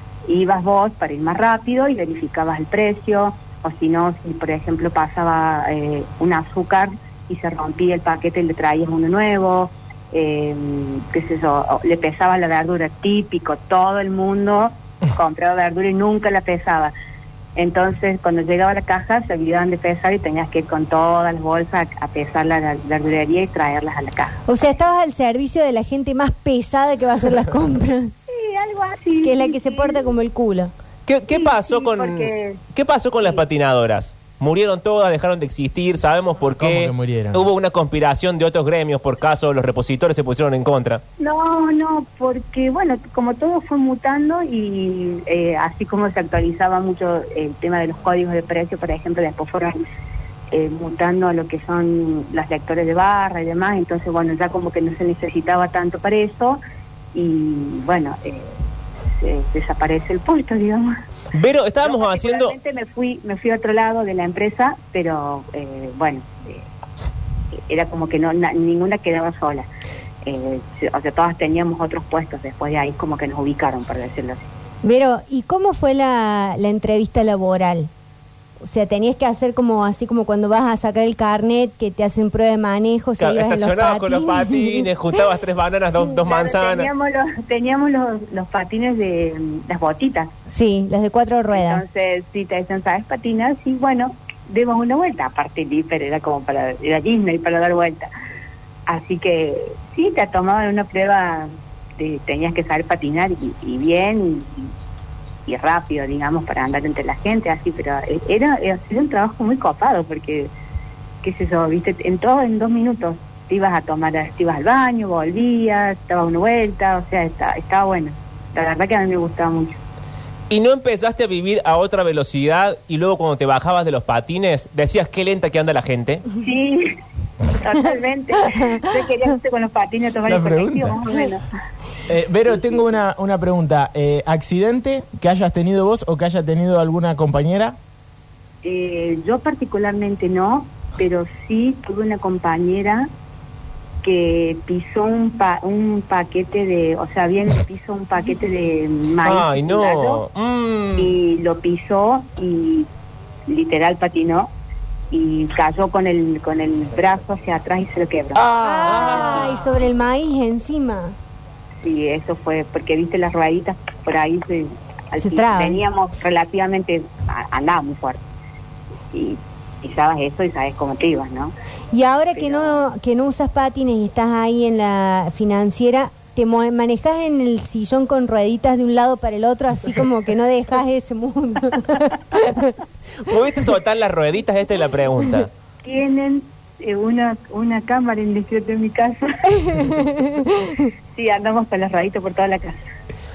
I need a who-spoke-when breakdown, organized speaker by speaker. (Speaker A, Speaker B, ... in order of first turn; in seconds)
Speaker A: 0.3-16.9, 17.6-24.4, 28.3-30.1, 31.3-32.6, 41.2-49.8, 50.5-56.6, 57.1-58.6, 59.2-60.9, 61.8-66.7, 67.6-69.7, 70.2-74.4, 86.0-90.3, 91.5-98.1, 98.9-104.7, 105.5-110.5, 111.2-119.8, 126.4-126.9, 127.5-131.4, 138.6-143.1, 144.0-150.2, 151.0-152.9, 153.5-154.5, 155.1-159.0, 161.8-168.2, 169.1-171.5, 172.3-172.8, 185.8-189.9, 191.2-192.8
Speaker B: 24.5-28.1, 29.2-30.7, 74.8-77.9, 78.6-84.9, 90.5-91.8, 158.6-161.2, 165.2-165.8, 171.9-182.8, 189.7-190.8
Speaker C: 31.1-41.0, 61.3-62.5, 83.2-86.9, 120.5-126.3, 149.2-151.2, 158.4-159.6, 183.2-185.5
Speaker D: 36.6-37.5, 130.3-131.1, 132.1-137.8